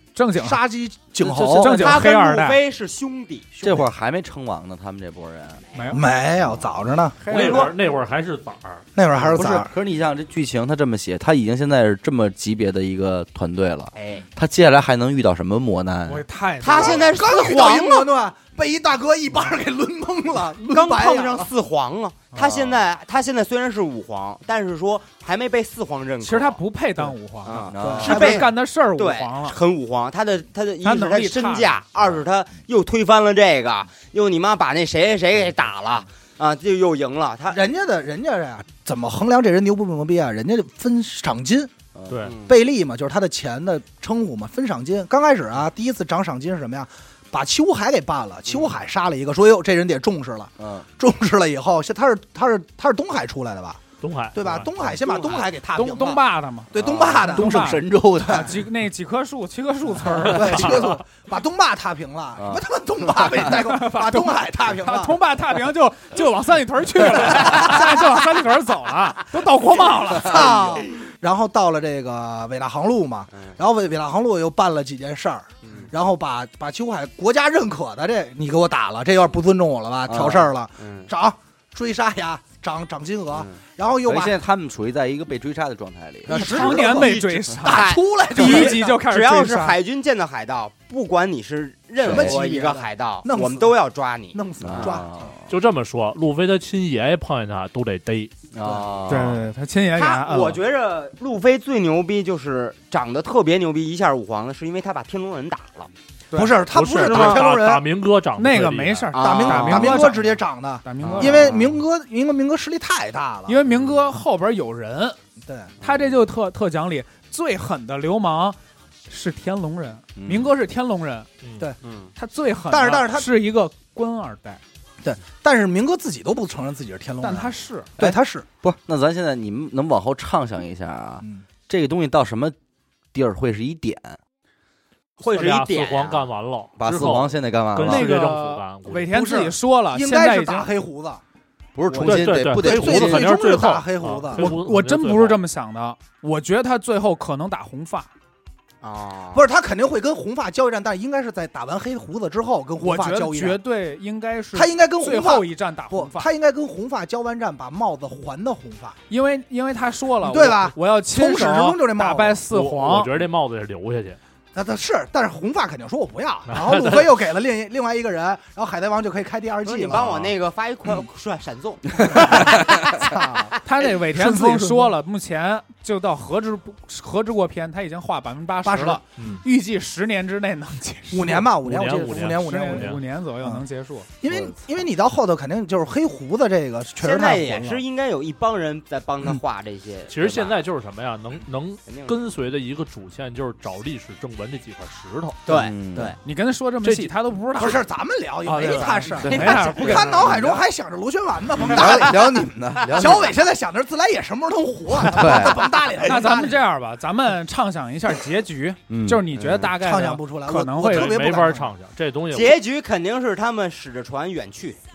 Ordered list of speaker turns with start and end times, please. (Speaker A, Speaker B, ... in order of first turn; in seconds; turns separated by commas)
Speaker A: 0.1-0.6, Speaker B: 0.4-2.0, Speaker C: 1.3-1.8, Speaker A: 1.4-2.6, Speaker D: 1.6-3.5, Speaker B: 3.6-3.9, Speaker C: 3.6-5.6, Speaker A: 5.8-6.0, Speaker B: 5.9-7.6, Speaker A: 7.2-7.7, Speaker E: 7.3-8.9, Speaker D: 7.3-7.7, Speaker B: 9.0-9.7, Speaker C: 9.2-16.2, Speaker D: 13.9-14.3, Speaker A: 16.1-17.2, Speaker D: 16.6-18.1, Speaker B: 16.7-21.5, Speaker D: 20.7-26.6, Speaker C: 22.4-22.8, Speaker A: 26.2-29.6, Speaker D: 27.4-37.6, Speaker C: 27.6-28.4, Speaker B: 27.8-28.5, Speaker A: 30.8-31.8, Speaker B: 37.5-41.7, Speaker C: 42.0-42.2, Speaker E: 42.1-42.4, Speaker D: 42.2-42.5, Speaker B: 42.5-53.8, Speaker D: 48.5-48.7, Speaker C: 50.6-50.9, Speaker E: 54.0-54.7, Speaker B: 54.4-57.6, Speaker D: 55.0-55.5, Speaker A: 55.8-56.7, Speaker C: 56.7-58.5, Speaker A: 57.3-61.0, Speaker B: 58.2-58.5, Speaker B: 60.2-65.2, Speaker E: 60.5-60.9, Speaker C: 62.4-63.4, Speaker A: 63.4-70.6, Speaker B: 67.4-67.9, Speaker B: 70.2-84.4, Speaker D: 75.6-75.9, Speaker C: 80.1-80.5, Speaker D: 80.8-81.1, Speaker D: 83.3-83.6, Speaker C: 84.0-86.7, Speaker B: 86.3-89.0, Speaker A: 86.3-89.8, Speaker D: 87.0-95.0, Speaker C: 92.0-92.4, Speaker B: 92.0-93.7, Speaker B: 94.3-95.3, Speaker C: 94.6-95.5, Speaker E: 95.5-98.3, Speaker C: 98.5-99.4, Speaker A: 99.1-100.6, Speaker D: 100.0-105.9, Speaker A: 106.3-106.6, Speaker B: 106.3-107.9, Speaker E: 106.7-109.1, Speaker D: 106.9-107.5, Speaker A: 108.4-111.5, Speaker D: 109.1-110.1, Speaker B: 109.2-113.6, Speaker D: 111.0-111.7, Speaker A: 113.5-115.2, Speaker B: 115.4-115.7, Speaker A: 115.8-118.6, Speaker A: 119.1-121.3, Speaker C: 120.2-120.5, Speaker E: 121.4-121.7, Speaker D: 121.8-122.1, Speaker A: 122.2-124.6, Speaker B: 122.7-123.4, Speaker B: 125.0-128.5, Speaker A: 127.2-128.2, Speaker C: 128.6-132.6, Speaker C: 133.1-134.2, Speaker D: 135.2-136.3, Speaker E: 135.2-139.2, Speaker C: 136.8-138.1, Speaker A: 137.8-140.7, Speaker B: 139.1-141.2, Speaker C: 141.8-143.4, Speaker B: 141.9-144.5, Speaker E: 142.0-145.4, Speaker A: 144.3-148.1, Speaker D: 148.8-149.5, Speaker B: 149.3-153.6, Speaker A: 152.8-156.3, Speaker B: 154.5-159.0, Speaker A: 159.1-163.1, Speaker B: 160.2-162.4, Speaker E: 162.5-164.2, Speaker B: 164.5-170.2, Speaker E: 166.5-167.1, Speaker D: 169.6-173.0, Speaker E: 170.0-170.3, Speaker B: 172.1-173.6, Speaker A: 173.6-181.5, Speaker B: 174.1-174.9, Speaker B: 178.7-179.0, Speaker E: 179.2-179.4, Speaker B: 181.1-183.6, Speaker E: 181.5-183.0, Speaker A: 182.3-184.1, Speaker B: 184.2-187.8, Speaker C: 184.3-184.6, Speaker D: 187.0-190.6, Speaker E: 190.1-195.4, Speaker D: 191.9-192.2, Speaker D: 195.5-196.2, Speaker C: 195.5-196.1, Speaker A: 196.2-197.8, Speaker E: 196.8-197.1, Speaker B: 197.6-206.6, Speaker A: 198.4-200.3, Speaker C: 199.2-200.6, Speaker D: 199.2-200.3, Speaker C: 201.6-203.4, Speaker D: 201.7-202.1, Speaker D: 202.8-203.3, Speaker C: 205.1-205.7, Speaker A: 206.0-211.3, Speaker C: 208.9-209.7, Speaker B: 209.8-211.7, Speaker E: 210.8-212.6, Speaker D: 212.3-214.8